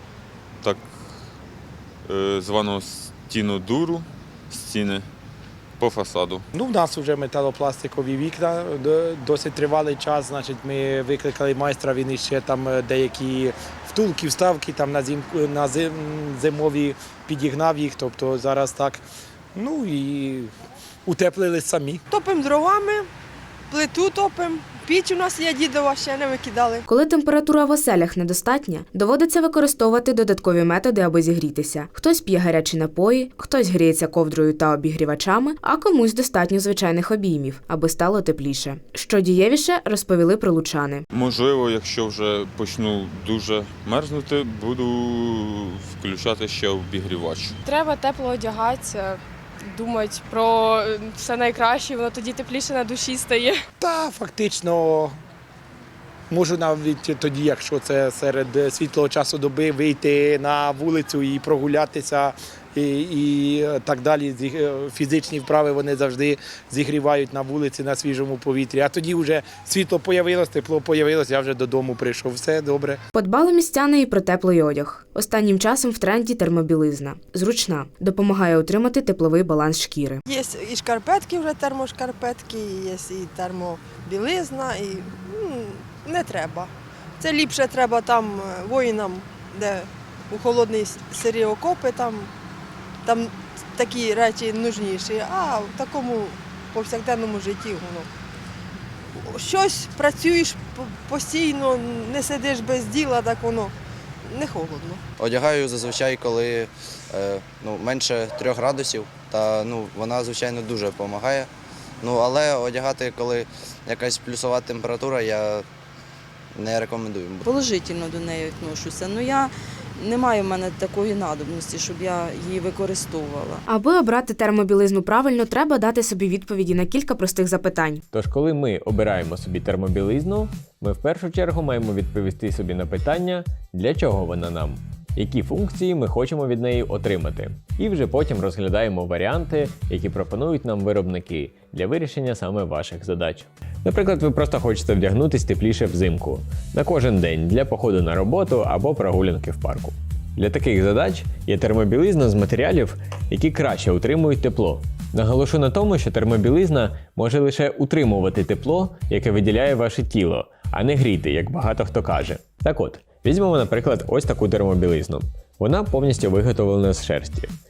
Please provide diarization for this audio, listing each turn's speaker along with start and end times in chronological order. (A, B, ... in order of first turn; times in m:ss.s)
0:00.6-0:00.9 A
0:02.0-0:05.0 A
0:05.8-0:06.4 A
0:06.5-0:19.0 B
0:19.5-0:20.5 B
0:21.0-0:22.0 B
0:22.1-0:23.1 C
0:23.7-0:26.8 C
0:26.9-0:41.0 D
0:41.1-0:47.6 A
0:47.6-0:53.6 E
0:53.8-0:55.1 B
0:56.3-1:13.0 B
1:13.1-1:20.2 D
1:20.3-1:32.3 C
1:33.0-1:38.1 C
1:39.1-1:45.0 C
1:45.2-1:51.5 F
1:52.0-1:55.6 F
1:56.5-1:57.5 F
1:57.4-2:03.6 G
2:03.7-2:08.0 D
2:08.1-2:47.5 H